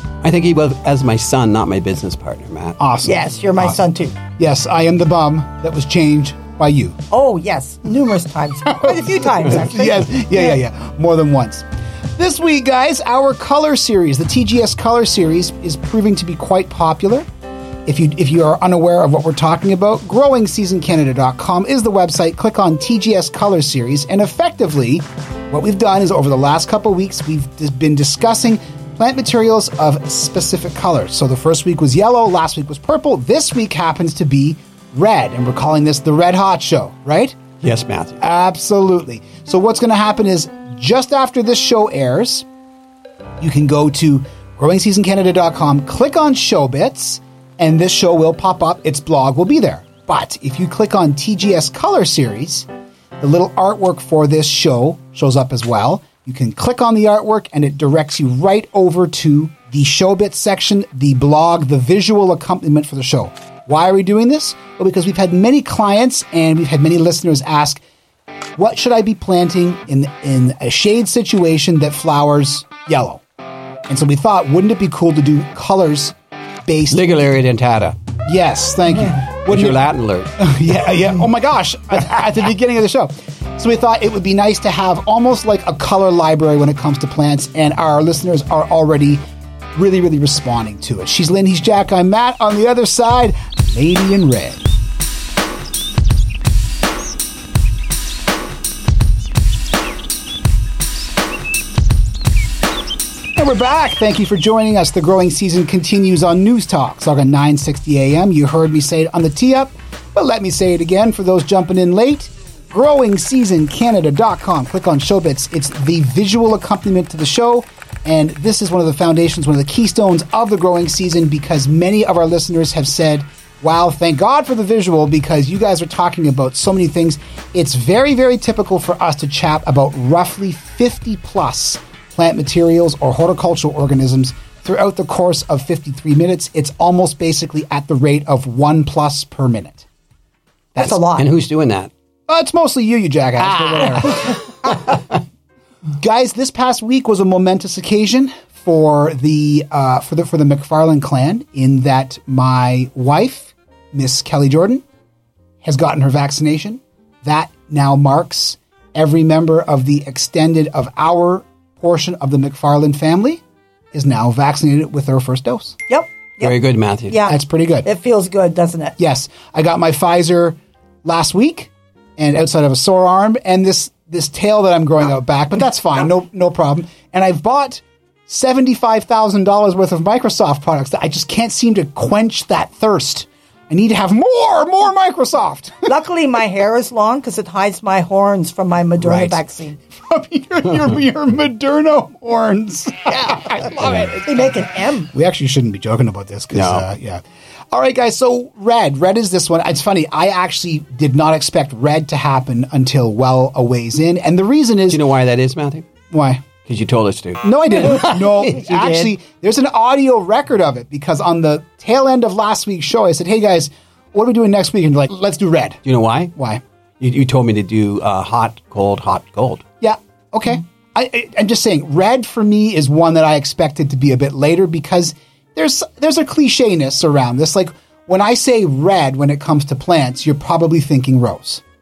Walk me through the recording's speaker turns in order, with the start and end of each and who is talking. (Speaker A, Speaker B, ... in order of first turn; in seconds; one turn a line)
Speaker A: 0.2-2.8
Speaker B: 2.8-3.8
Speaker C: 3.0-4.2
Speaker B: 4.4-7.0
Speaker C: 7.1-10.6
Speaker B: 8.7-17.3
Speaker B: 17.9-37.4
Speaker A: 37.6-38.2
Speaker B: 38.2-42.5
Speaker B: 43.4-52.7
Speaker B: 53.2-67.8
Speaker B: 68.6-73.2
Speaker B: 73.9-76.2
Speaker B: 76.7-77.0
Speaker A: 76.9-78.0
Speaker B: 78.2-79.8
Speaker A: 79.5-81.0
Speaker B: 80.4-89.2
Speaker B: 89.8-94.6
Speaker B: 103.4-139.9
Speaker C: 140.8-141.3
Speaker A: 141.1-141.9
Speaker B: 142.3-144.4
Speaker A: 143.4-145.0
Speaker B: 146.0-154.8
Speaker B: 155.6-163.4
Speaker B: 163.9-165.8
Speaker C: 165.9-169.0
Speaker A: 166.4-167.2
Speaker B: 167.3-167.9
Speaker B: 169.0-185.9
Speaker C: 185.9-189.8
Speaker B: 189.0-189.3
Speaker B: 189.9-205.0
Speaker C: 194.2-195.1
Speaker A: 196.5-196.9
Speaker A: 204.9-205.9
Speaker B: 206.1-206.5
Speaker A: 206.7-209.1
Speaker B: 207.4-215.8
Speaker A: 215.8-216.3
Speaker B: 216.3-216.6
Speaker A: 217.0-219.6
Speaker B: 219.8-231.6